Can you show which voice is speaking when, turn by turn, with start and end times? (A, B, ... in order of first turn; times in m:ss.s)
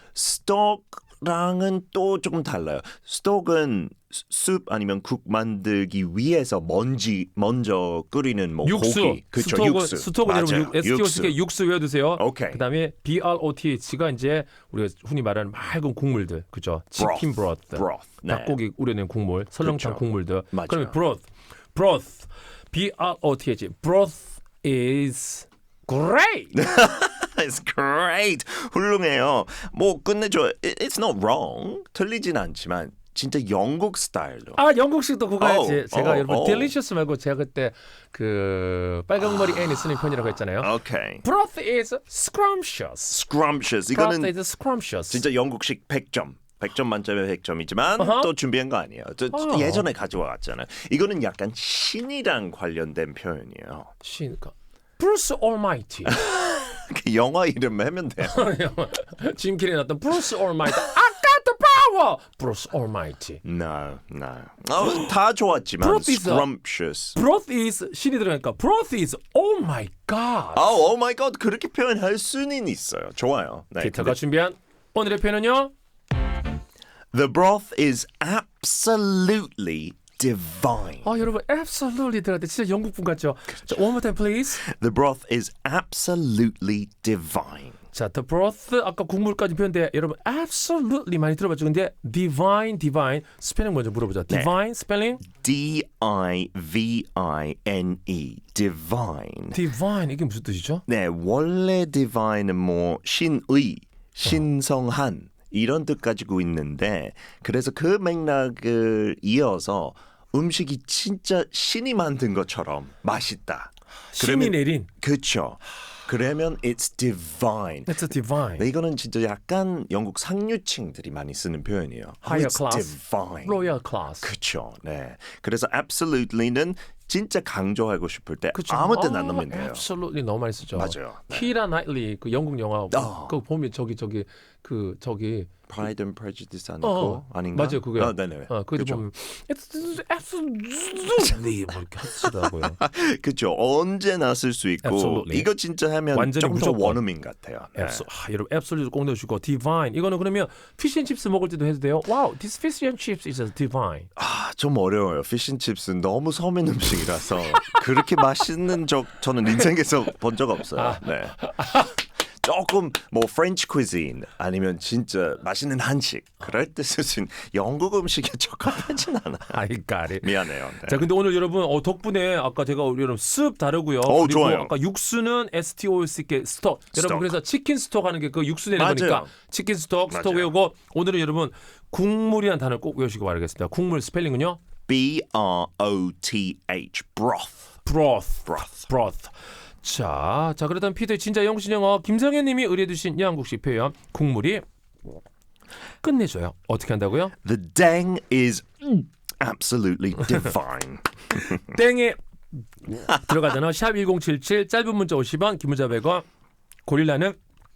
0:00.1-0:11.4 A
0:08.6-0:26.6 B
0:12.2-0:12.6 A
0:17.0-0:18.6 A
0:19.6-0:20.9 A
0:26.5-0:34.6 A
0:34.6-0:43.2 B
0:35.4-0:36.7 A
0:39.2-0:40.0 A
0:40.6-0:41.2 A
0:43.1-0:44.3 A
0:43.9-0:45.2 B
0:45.1-0:53.9 A
0:48.0-0:48.3 B
0:49.3-0:49.8 B
0:54.0-0:56.2 B
0:56.0-0:58.4 A
0:58.2-1:03.4 B
1:03.4-1:07.2 A
1:05.8-1:06.5 B
1:07.1-1:10.7 B
1:10.5-1:14.2 A
1:13.8-1:15.7 B
1:17.1-1:21.1 A
1:21.0-1:24.6 B
1:24.5-1:27.8 A
1:27.9-1:35.2 B
1:34.3-1:34.5 A
1:35.3-1:39.6 A
1:39.5-1:40.8 B
1:40.9-1:58.0 A
1:54.1-1:54.9 B
1:57.9-1:58.6 B
1:58.6-2:03.7 A
2:02.2-2:04.3 B
2:04.2-2:09.8 A
2:08.5-2:15.5 B
2:10.7-2:11.5 A
2:12.9-2:13.3 A
2:15.7-2:19.0 A
2:16.8-2:22.8 B
2:22.2-2:28.0 A
2:24.8-2:25.5 B
2:26.1-2:27.0 B
2:27.8-2:34.1 B
2:34.2-2:41.9 A
2:40.8-2:42.0 B
2:42.4-2:49.6 A
2:49.5-3:04.6 B
2:50.2-2:51.0 A
2:54.0-2:54.7 A
2:56.9-2:57.4 A
2:58.8-2:59.3 A
3:00.1-3:00.5 A
3:04.9-3:07.7 A
3:07.8-3:14.6 B
3:08.5-3:08.8 A
3:16.0-3:17.3 B
3:17.4-3:21.6 A
3:21.6-3:22.2 B
3:22.9-3:26.2 B
3:26.8-3:27.4 B